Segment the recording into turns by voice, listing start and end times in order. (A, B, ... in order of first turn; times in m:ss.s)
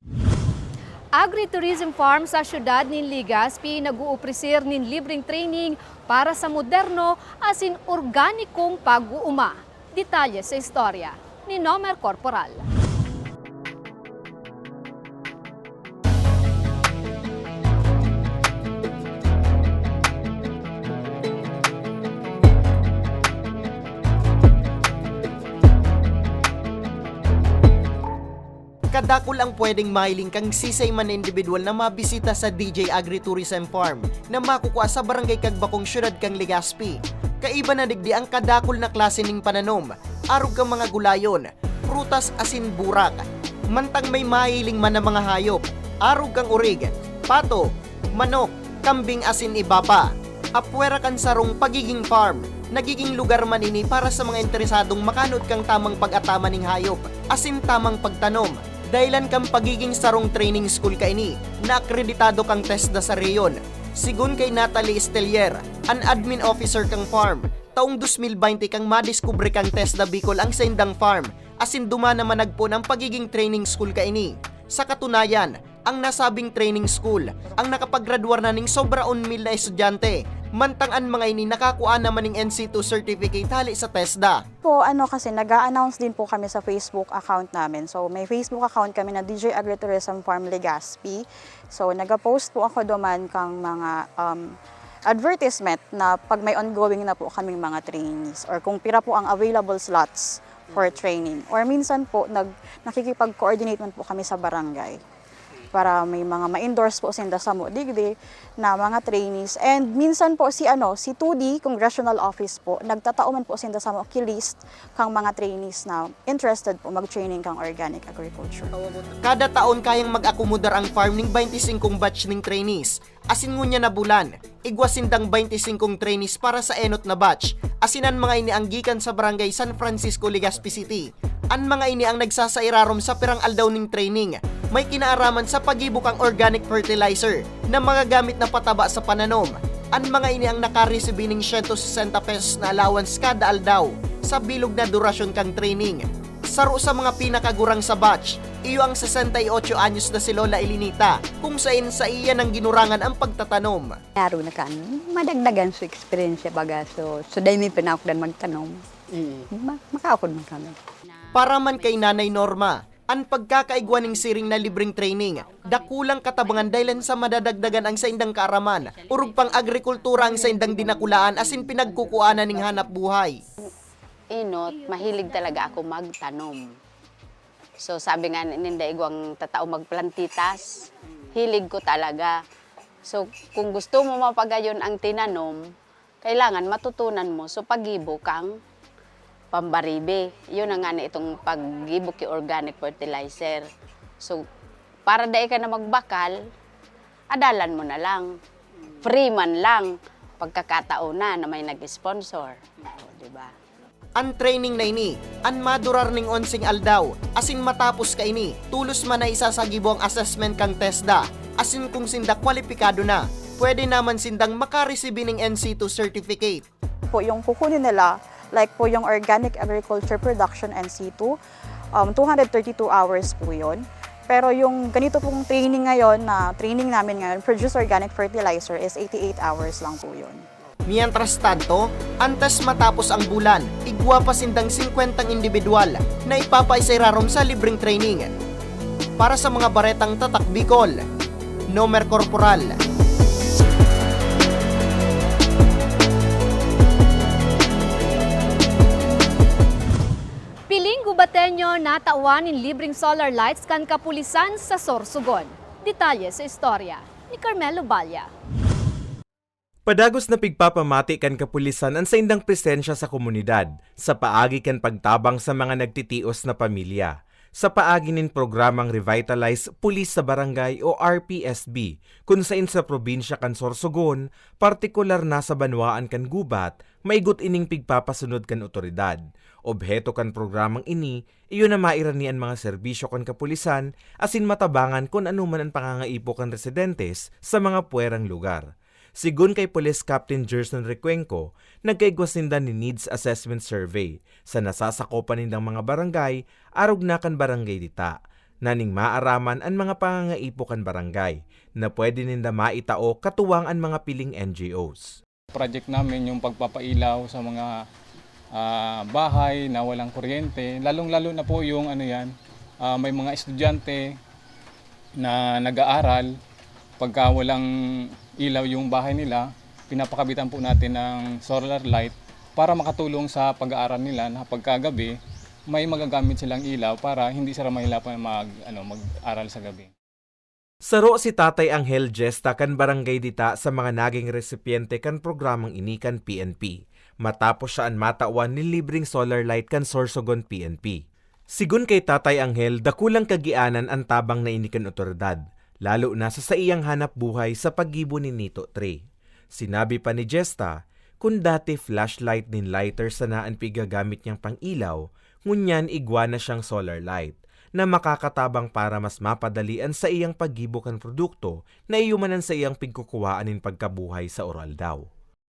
0:01.1-0:12.6 A
0:28.9-1:24.4 B
1:24.6-1:34.6 C
1:35.1-1:45.0 C
1:45.7-1:58.7 C
1:59.2-2:34.0 B
2:34.2-2:38.8 D
2:39.4-2:40.8 D
2:41.3-2:53.4 B
2:54.3-2:56.7 E
2:57.8-3:02.4 E
3:03.0-3:05.6 E
3:06.2-3:08.5 E
3:09.5-3:13.6 E
3:15.0-3:16.4 E
3:17.3-3:18.3 E
3:19.0-3:23.5 E
3:24.2-3:36.6 B
3:37.1-3:41.4 C
3:41.9-3:50.4 C
3:50.9-3:58.3 B
3:59.2-4:01.0 B
4:01.7-4:02.8 B
4:10.7-4:18.3 A
4:19.8-4:48.7 F
4:49.2-5:05.2 F
5:05.5-5:07.8 G
5:08.5-5:12.3 G
5:12.8-5:14.2 G
5:15.2-5:16.3 G
5:17.0-5:17.6 G
5:18.4-5:25.1 G
5:25.7-5:29.9 G
5:30.8-5:41.0 F
5:41.6-5:49.0 F
5:49.5-6:05.0 F